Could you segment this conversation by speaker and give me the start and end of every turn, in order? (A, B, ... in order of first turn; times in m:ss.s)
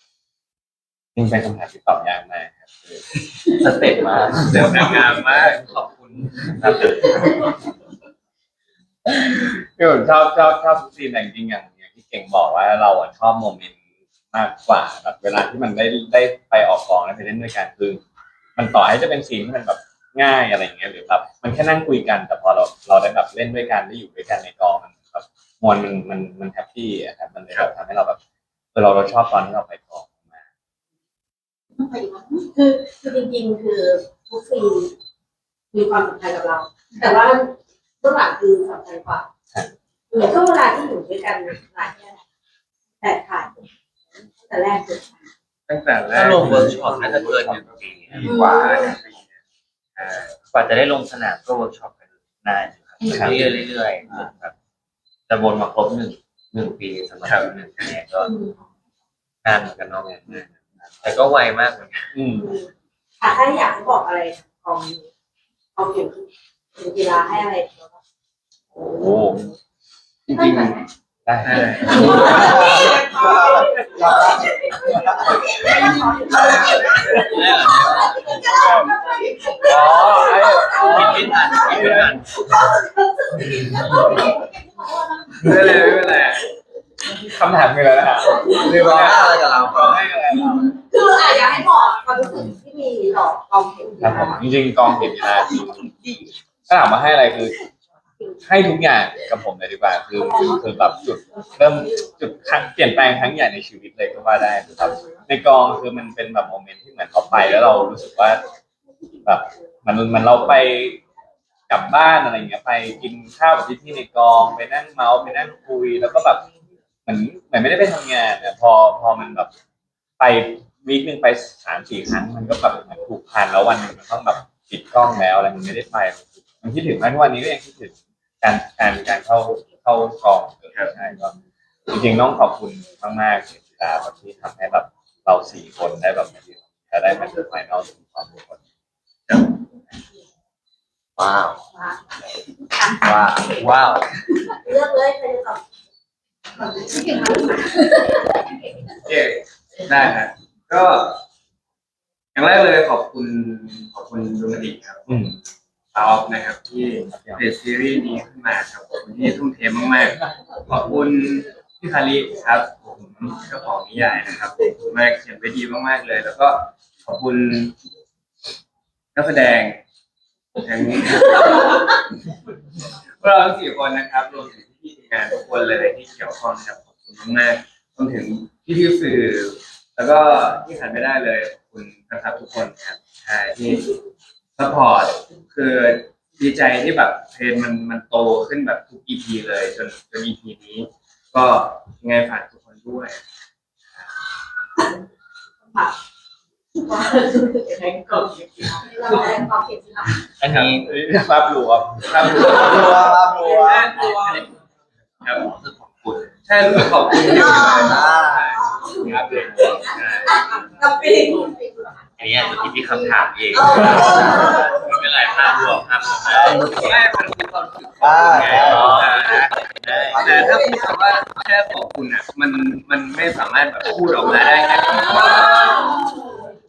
0:01.2-0:03.0 A
0:03.5-0:07.3 B
0:04.4-0:05.6 C
0:09.0-0:13.8 A
0:14.3-0:18.0 A
0:18.6-0:28.2 A
0:28.7-0:30.2 A
0:31.8-0:32.5 D
0:32.5-0:34.9 E
0:35.7-0:39.3 E
0:40.1-0:42.2 E
0:43.0-0:43.5 E
0:44.5-0:45.2 E
0:45.7-0:46.6 C
0:46.1-0:48.3 B
0:46.2-0:48.9 F
0:48.2-0:48.9 E
0:48.2-0:49.3 C
0:50.0-0:50.3 C
0:50.5-0:54.5 B
0:53.0-0:53.5 A
0:55.3-0:58.3 B
0:57.2-0:57.5 C
0:59.4-1:00.3 B
0:59.9-1:01.1 A
1:01.0-1:02.1 B
1:02.1-1:02.5 A
1:02.4-1:02.7 E
1:03.2-1:05.0 E
1:05.8-1:06.2 E
1:06.8-1:07.9 E
1:08.8-1:09.5 A
1:10.3-1:10.9 D
1:10.3-1:10.8 C
1:11.2-1:13.1 A
1:11.4-1:12.6 C
1:11.6-1:12.8 D
1:11.9-1:14.5 E
1:12.4-1:14.5 F
1:15.0-1:17.6 E
1:15.3-1:21.5 D
1:17.1-1:18.4 B
1:18.1-1:18.9 E
1:18.4-1:18.9 A
1:19.6-1:22.1 A
1:20.4-1:21.6 E
1:20.8-1:22.2 B
1:22.5-1:24.2 E
1:23.8-1:25.8 D
1:25.4-1:26.4 C
1:27.2-1:30.8 A
1:28.6-1:30.0 F
1:30.9-1:34.4 E
1:34.0-1:35.8 A
1:36.7-1:37.5 A
1:38.4-1:48.4 A
1:40.2-1:40.6 E
1:49.2-1:51.0 A
1:51.7-1:56.5 A
1:57.1-1:59.5 A
2:00.2-2:11.3 A
2:11.9-2:18.6 A
2:19.3-2:19.5 C
2:21.2-2:21.6 F
2:23.0-2:23.6 F
2:23.6-2:24.0 B
2:24.6-2:25.6 E
2:26.7-2:28.3 D
2:29.0-2:31.2 C
2:32.3-2:35.2 C
2:35.1-2:35.4 A
2:35.9-2:47.7 C
2:37.1-2:37.4 A
2:49.1-2:49.8 C
2:50.6-2:51.9 C
2:53.2-3:03.9 C
3:04.6-3:13.2 C
3:16.9-3:18.4 E
3:18.8-3:20.2 D
3:20.4-3:20.9 B
3:20.4-3:22.7 A
3:22.0-3:24.4 C
3:22.4-3:24.1 F
3:25.2-3:26.3 B
3:26.4-3:29.4 C
3:27.2-3:29.1 E
3:27.4-3:28.6 F
3:29.0-3:30.4 D
3:29.0-3:29.8 A
3:30.2-3:31.5 E
3:31.4-3:33.2 D
3:32.2-3:36.7 B
3:33.5-3:34.8 E
3:34.0-3:34.5 F
3:36.3-3:37.1 F
3:36.5-3:39.5 C
3:38.0-3:39.0 F
3:38.5-3:39.4 A
3:38.5-3:40.2 B
3:39.9-3:40.8 F
3:40.1-3:45.7 C
3:40.2-3:40.9 E
3:43.8-3:46.4 D
3:45.0-3:46.2 E